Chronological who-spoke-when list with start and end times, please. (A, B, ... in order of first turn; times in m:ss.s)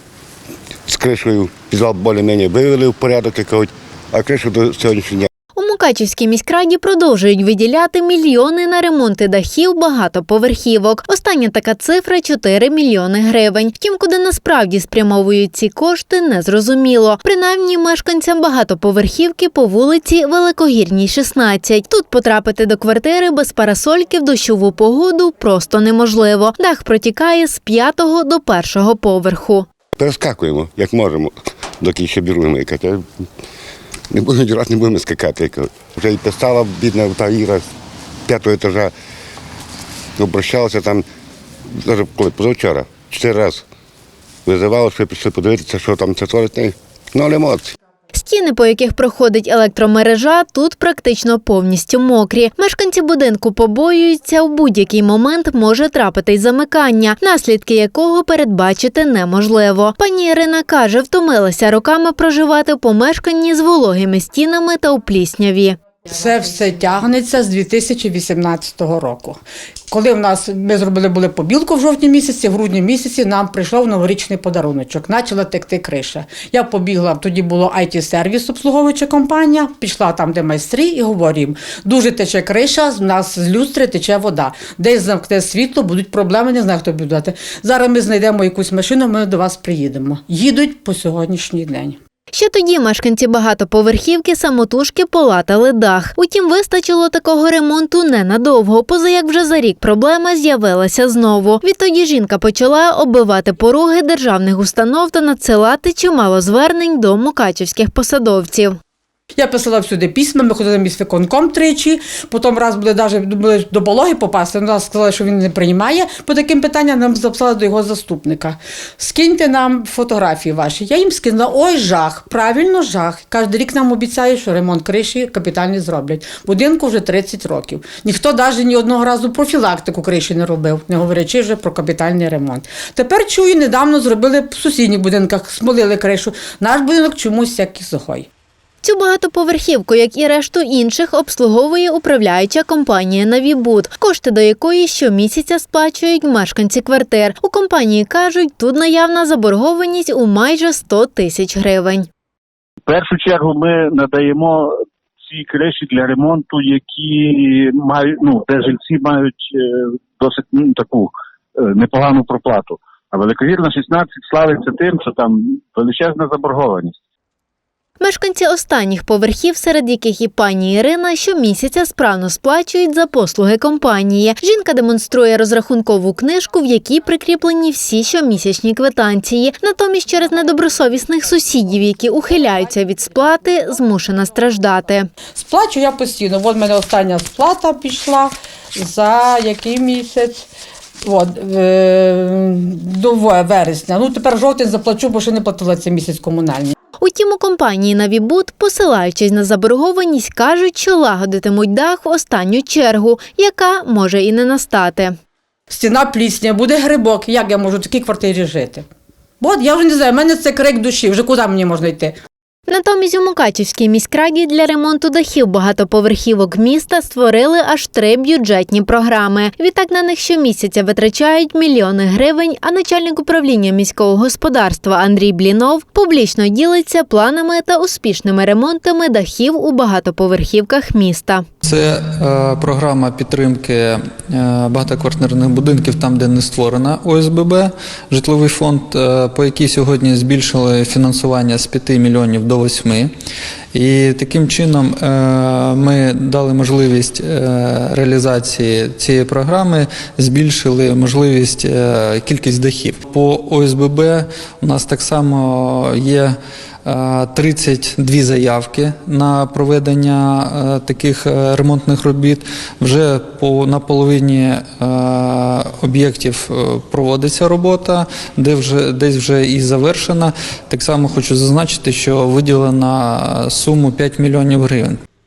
0:00.9-0:05.3 A
0:05.5-0:29.7 B
0:30.0-0:33.1 A
0:34.1-0:37.7 A
0:38.3-0:38.9 A
0:40.2-0:41.0 A
0:41.7-0:43.6 A
0:44.4-0:47.7 A
0:48.1-1:05.8 B
1:06.1-1:09.4 C
1:09.9-1:32.0 C
1:32.3-1:48.8 B
1:49.4-2:18.3 C
2:18.8-2:32.1 B
2:32.8-2:47.0 D
2:48.0-3:05.1 B
3:05.4-3:10.5 C
3:11.0-3:16.7 C
3:17.0-3:25.1 B
3:25.7-3:28.9 C
3:29.4-3:32.1 C
3:32.7-3:51.4 B
3:51.6-4:03.1 E
4:03.7-4:35.0 E